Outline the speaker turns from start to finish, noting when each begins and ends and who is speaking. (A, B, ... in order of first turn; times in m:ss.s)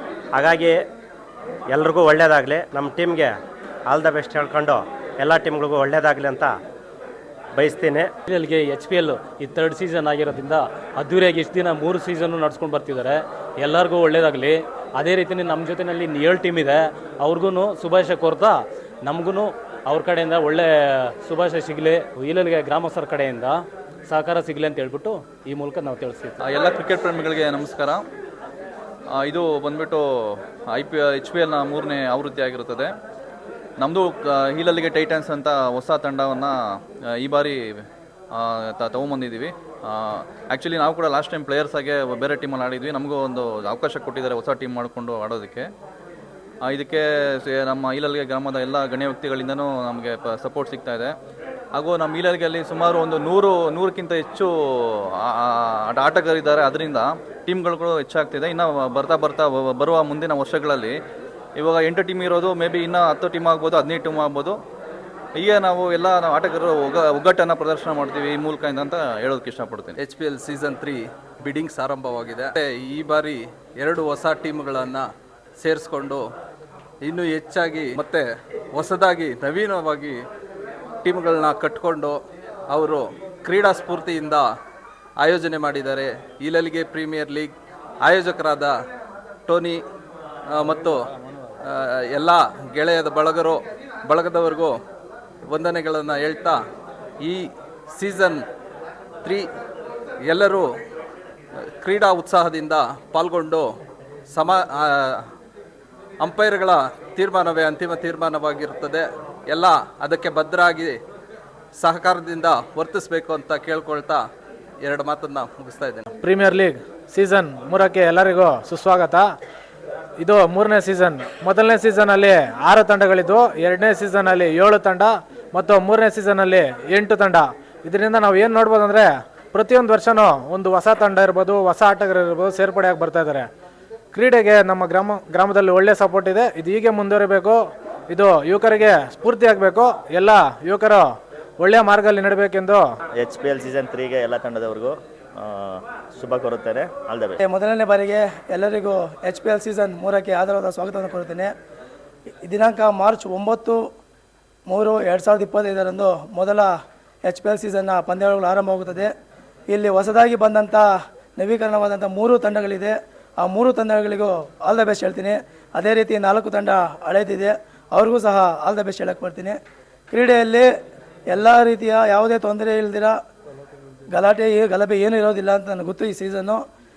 0:00.3-0:00.8 A
0:01.7-0:03.4 A
0:03.9-0:06.5 A
0:07.6-0:08.1 A
0:08.2-0:26.4 B
0:26.4-0:28.0 C
0:29.1-0:32.9 C
0:33.8-0:36.5 C
0:37.1-0:45.7 C
0:46.6-0:51.1 C
0:51.7-1:00.9 C
1:01.6-1:04.6 C
1:05.4-1:10.0 C
1:10.0-1:15.0 D
1:15.6-1:16.2 D
1:17.0-1:20.2 D
1:21.0-1:22.2 D
1:22.7-1:24.5 D
1:25.2-1:28.7 D
1:29.5-1:29.8 D
1:30.5-1:31.0 D
1:31.6-1:34.7 D
1:35.5-1:36.6 D
1:37.2-1:38.4 D
1:40.3-1:40.7 D
1:41.8-1:43.7 D
1:44.3-1:45.2 D
1:46.2-1:51.0 D
1:51.8-1:54.2 D
1:54.8-1:56.1 D
1:56.2-1:59.3 E
2:00.2-2:13.5 E
2:14.1-2:22.8 E
2:23.2-2:27.4 F
2:27.4-2:31.5 G
2:32.4-2:33.9 G
2:34.7-2:36.7 G
2:37.2-2:39.1 G
2:39.7-2:49.6 G
2:50.1-2:50.7 G
2:51.3-2:53.2 G
2:54.1-2:56.6 G